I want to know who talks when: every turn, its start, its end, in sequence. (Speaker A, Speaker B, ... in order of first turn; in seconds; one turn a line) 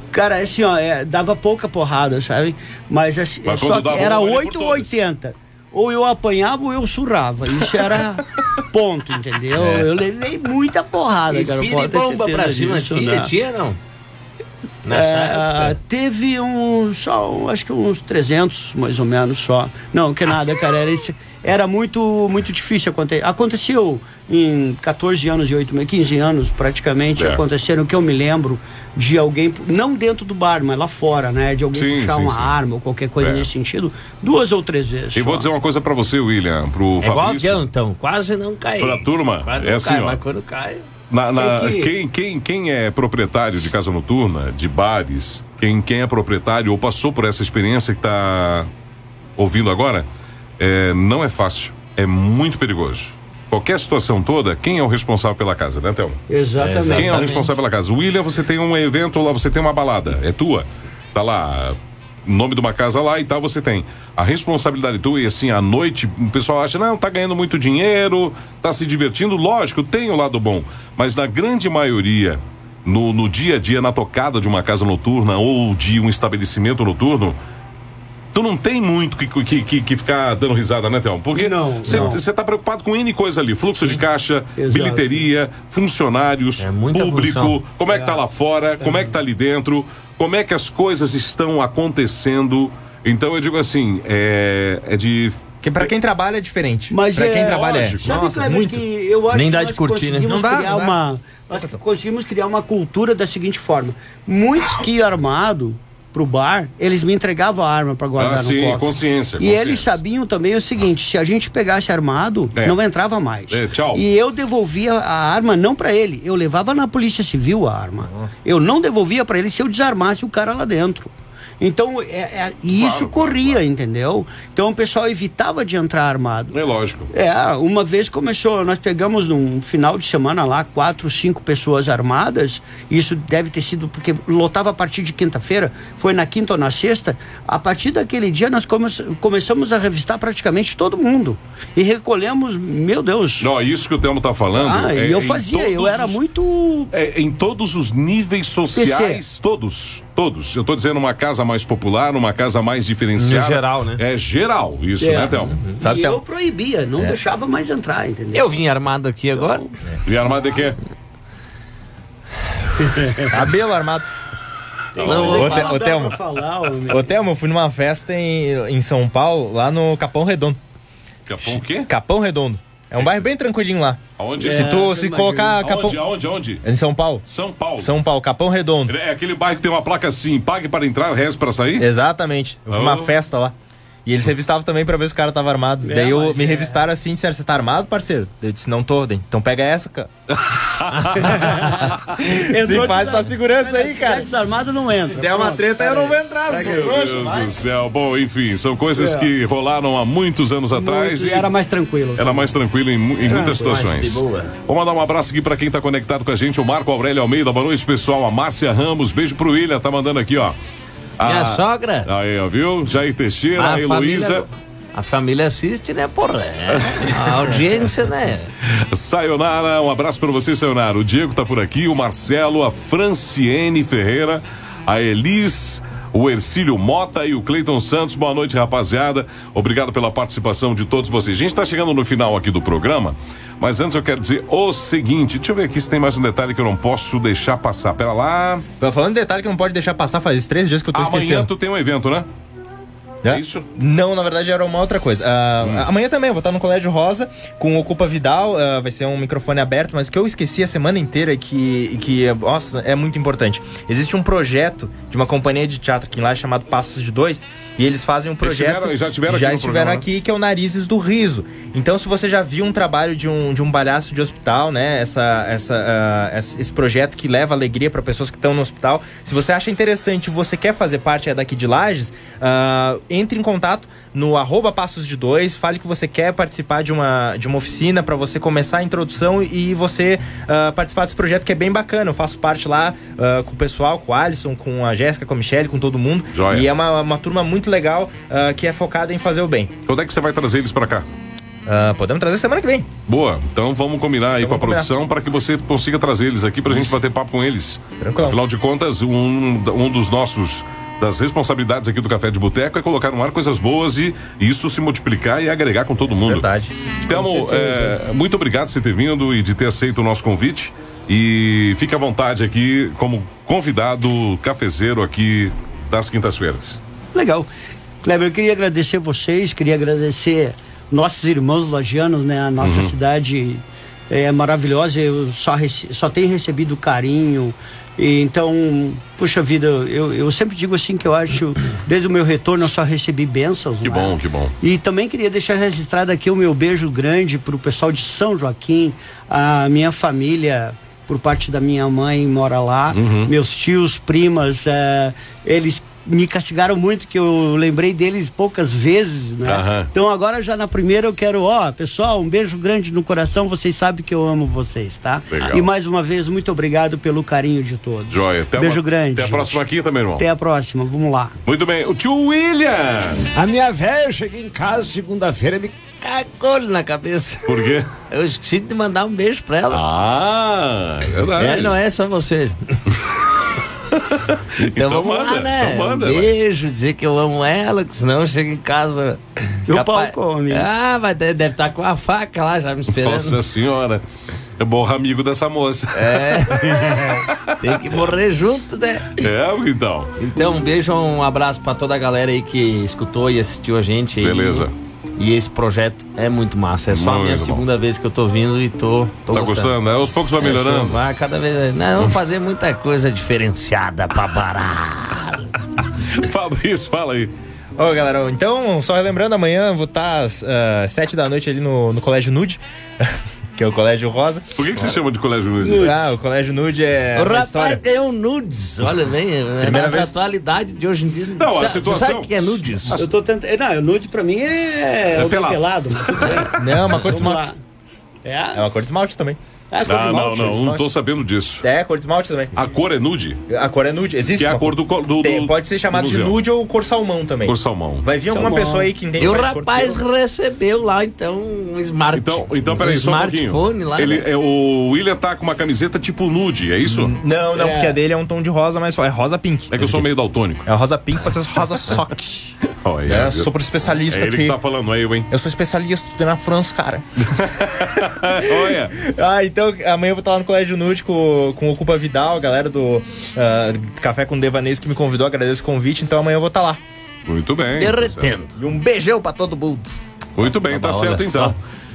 Speaker A: 0.1-13.3
Speaker B: 3.4-5.0
Speaker C: 11.3-13.8
Speaker C: 14.8-15.7
Speaker A: 14.9-35.5
Speaker B: 27.1-27.4
Speaker B: 31.7-32.5
Speaker B: 33.2-33.5
Speaker B: 35.1-37.7
Speaker C: 37.0-40.8
Speaker B: 38.8-40.2
Speaker B: 41.1-48.7
Speaker A: 41.4-41.9
Speaker B: 49.4-50.0
Speaker B: 50.6-56.2
Speaker A: 56.3-57.2
Speaker C: 56.6-57.5
Speaker B: 56.9-77.4
Speaker B: 78.3-95.9
Speaker A: 81.3-82.2
Speaker A: 84.5-85.2
Speaker C: 86.6-87.6
Speaker A: 87.9-88.2
Speaker A: 88.8-89.1
Speaker D: 95.6-98.8
Speaker A: 96.9-126.6
Speaker B: 97.4-98.1
Speaker C: 99.3-100.3
Speaker D: 100.3-101.0
Speaker B: 108.2-110.0
Speaker B: 113.5-114.0
Speaker B: 122.7-123.6
Speaker B: 126.5-127.1
Speaker A: 127.1-143.5
Speaker B: 143.4-146.2
Speaker A: 144.5-146.9
Speaker B: 146.9-155.6
Speaker A: 148.7-149.2
Speaker C: 153.2-154.0
Speaker A: 155.0-158.5
Speaker C: 155.3-155.8
Speaker D: 155.8-156.2
Speaker C: 158.3-159.7
Speaker B: 160.0-160.8
Speaker A: 162.8-163.3
Speaker D: 163.3-164.1
Speaker A: 164.9-167.2
Speaker B: 164.9-165.5
Speaker C: 165.0-165.8
Speaker D: 165.0-166.2
Speaker D: 166.9-170.6
Speaker B: 171.3-171.9
Speaker D: 171.5-176.0
Speaker B: 172.9-173.2
Speaker B: 174.2-174.8
Speaker A: 174.4-175.6
Speaker B: 175.6-176.6
Speaker D: 176.6-177.2
Speaker B: 177.2-177.9
Speaker D: 177.8-178.9
Speaker B: 178.9-181.9
Speaker D: 181.8-183.5
Speaker B: 182.7-183.2
Speaker D: 184.0-190.1
Speaker A: 185.8-186.8
Speaker B: 190.4-191.6
Speaker D: 191.2-194.3
Speaker A: 191.3-197.0
Speaker D: 194.9-197.6
Speaker B: 196.5-201.5
Speaker A: 198.9-199.3
Speaker A: 200.7-202.5
Speaker B: 202.2-210.5
Speaker A: 203.2-203.9
Speaker C: 203.3-204.5
Speaker B: 211.2-214.4
Speaker C: 211.2-212.1
Speaker C: 213.6-218.5
Speaker B: 216.8-217.1
Speaker B: 218.7-238.7
Speaker D: 238.8-241.5
Speaker B: 240.9-242.3
Speaker D: 243.2-289.7
Speaker B: 243.2-243.7
Speaker B: 245.6-245.9
Speaker B: 258.4-260.1
Speaker B: 286.3-286.7
Speaker B: 289.9-291.1
Speaker D: 291.6-292.9
Speaker B: 293.1-306.5
Speaker D: 294.4-294.9
Speaker D: 296.7-296.9
Speaker D: 298.0-298.4
Speaker D: 306.1-307.9
Speaker B: 307.1-316.8
Speaker A: 317.1-317.5
Speaker A: 318.0-359.6
Speaker B: 322.6-322.9
Speaker B: 333.8-334.5
Speaker B: 342.9-343.3
Speaker B: 349.4-349.9
Speaker B: 355.3-355.7
Speaker B: 358.1-360.2
Speaker A: 360.2-361.3
Speaker B: 361.4-363.2
Speaker E: 363.3-365.7
Speaker C: 366.0-369.8
Speaker B: 367.4-367.9
Speaker B: 369.7-371.7
Speaker C: 371.3-372.8
Speaker B: 373.9-376.3
Speaker C: 374.6-383.4
Speaker A: 379.7-380.7
Speaker B: 382.9-384.0
Speaker B: 384.6-388.0
Speaker C: 385.9-389.2
Speaker B: 389.1-390.1
Speaker C: 390.2-399.7
Speaker B: 394.2-394.7
Speaker B: 396.9-397.6
Speaker B: 399.3-401.0
Speaker C: 400.4-405.6
Speaker B: 406.0-407.3
Speaker D: 407.8-414.9
Speaker B: 414.6-416.0
Speaker A: 415.6-416.0
Speaker D: 415.6-417.8
Speaker C: 417.1-423.0
Speaker D: 419.6-420.1
Speaker B: 421.3-423.1
Speaker A: 422.9-427.6
Speaker B: 425.1-427.1
Speaker D: 426.6-427.5
Speaker A: 428.2-428.6
Speaker D: 428.5-429.4
Speaker A: 429.7-430.6
Speaker B: 429.8-431.6
Speaker D: 430.1-430.8
Speaker D: 431.6-432.5
Speaker B: 432.5-433.4
Speaker D: 433.5-440.0
Speaker B: 434.3-436.4
Speaker B: 437.4-438.1
Speaker A: 438.3-438.9
Speaker C: 439.2-444.3
Speaker B: 442.1-447.2
Speaker D: 446.8-450.1
Speaker A: 447.5-448.0
Speaker B: 449.7-450.7
Speaker D: 450.6-452.5
Speaker B: 452.6-455.3
Speaker D: 453.1-454.6
Speaker D: 455.3-466.8
Speaker B: 457.2-458.9
Speaker B: 467.2-468.4
Speaker C: 467.7-468.6
Speaker D: 468.6-469.9
Speaker B: 470.4-471.6
Speaker C: 470.6-471.6